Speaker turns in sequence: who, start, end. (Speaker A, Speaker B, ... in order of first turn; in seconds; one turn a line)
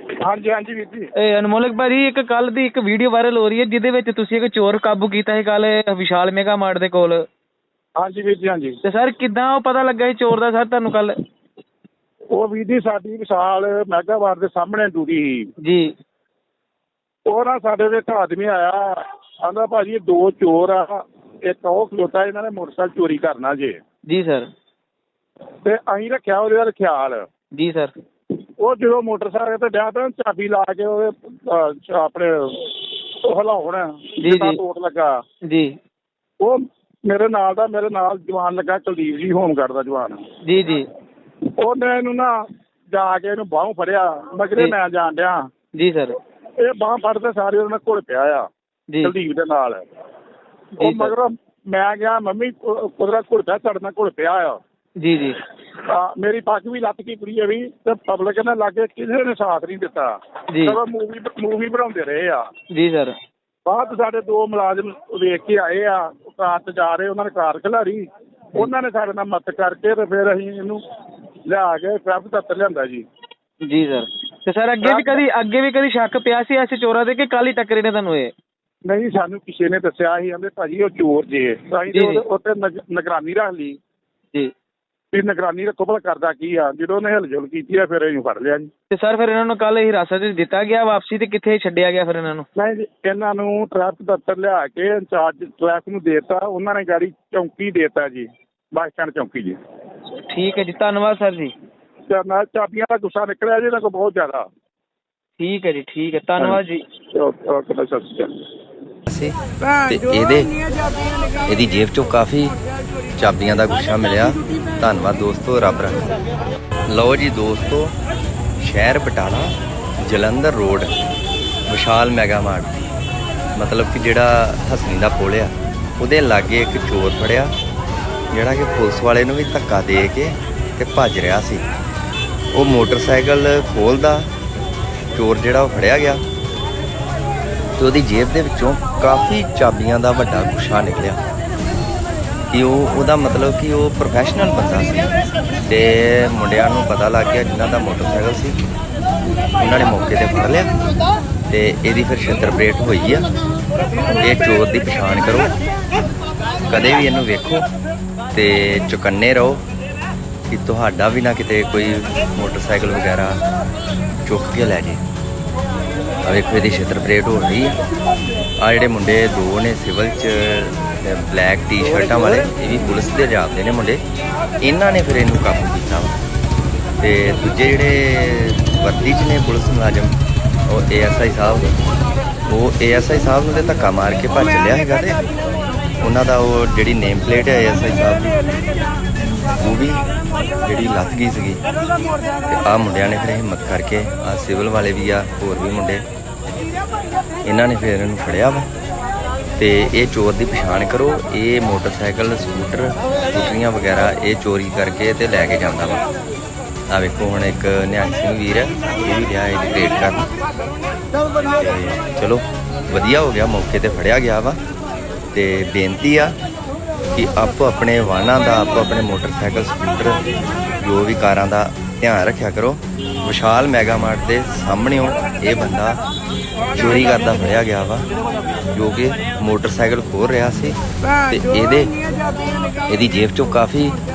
Speaker A: 0.2-1.1
Speaker B: 1.2-7.3
Speaker A: 8.0-8.8
Speaker B: 8.8-11.2
Speaker A: 12.3-15.5
Speaker B: 15.6-15.9
Speaker A: 17.3-23.8
Speaker B: 24.1-24.5
Speaker A: 25.6-27.3
Speaker B: 27.5-27.9
Speaker A: 28.6-35.2
Speaker B: 34.2-34.6
Speaker B: 35.5-35.8
Speaker A: 36.4-40.2
Speaker B: 40.5-40.9
Speaker A: 41.6-42.3
Speaker A: 42.9-45.5
Speaker B: 45.8-46.2
Speaker A: 46.6-48.5
Speaker B: 48.9-49.1
Speaker A: 49.0-49.8
Speaker B: 50.8-51.1
Speaker A: 50.8-54.6
Speaker B: 55.0-55.4
Speaker A: 55.8-62.5
Speaker B: 60.5-60.8
Speaker B: 62.7-63.2
Speaker A: 63.7-70.8
Speaker A: 71.5-73.0
Speaker B: 73.6-78.3
Speaker A: 74.8-75.2
Speaker A: 78.9-83.8
Speaker B: 81.9-82.2
Speaker A: 85.1-88.7
Speaker B: 88.9-92.5
Speaker A: 92.6-99.6
Speaker B: 100.3-101.5
Speaker A: 102.1-104.5
Speaker B: 105.4-106.8
Speaker A: 107.1-108.5
Speaker C: 109.1-109.3
Speaker C: 109.9-110.5
Speaker C: 111.5-112.6
Speaker C: 113.2-116.1
Speaker C: 116.9-118.0
Speaker C: 118.6-120.9
Speaker C: 121.7-122.9
Speaker C: 123.6-127.5
Speaker C: 128.3-131.6
Speaker C: 132.5-134.3
Speaker C: 135.1-136.2
Speaker C: 137.8-141.2
Speaker C: 142.5-145.1
Speaker C: 145.7-148.6
Speaker C: 149.6-150.7
Speaker C: 151.5-153.3
Speaker C: 154.2-155.5
Speaker C: 156.7-157.7
Speaker C: 158.3-159.6
Speaker C: 160.5-163.4
Speaker C: 164.2-165.0
Speaker C: 166.2-167.8
Speaker C: 168.6-174.0
Speaker C: 174.6-176.2
Speaker C: 177.0-180.1
Speaker C: 180.7-181.7
Speaker C: 182.5-185.2
Speaker C: 186.0-188.4
Speaker C: 189.6-190.1
Speaker C: 190.6-191.6
Speaker C: 192.5-196.1
Speaker C: 197.4-198.7
Speaker C: 199.6-206.1
Speaker C: 206.9-210.3
Speaker C: 211.6-214.6
Speaker C: 215.3-216.4
Speaker C: 217.2-220.2
Speaker C: 220.8-226.0
Speaker C: 226.7-228.1
Speaker C: 228.7-231.9
Speaker C: 232.9-234.0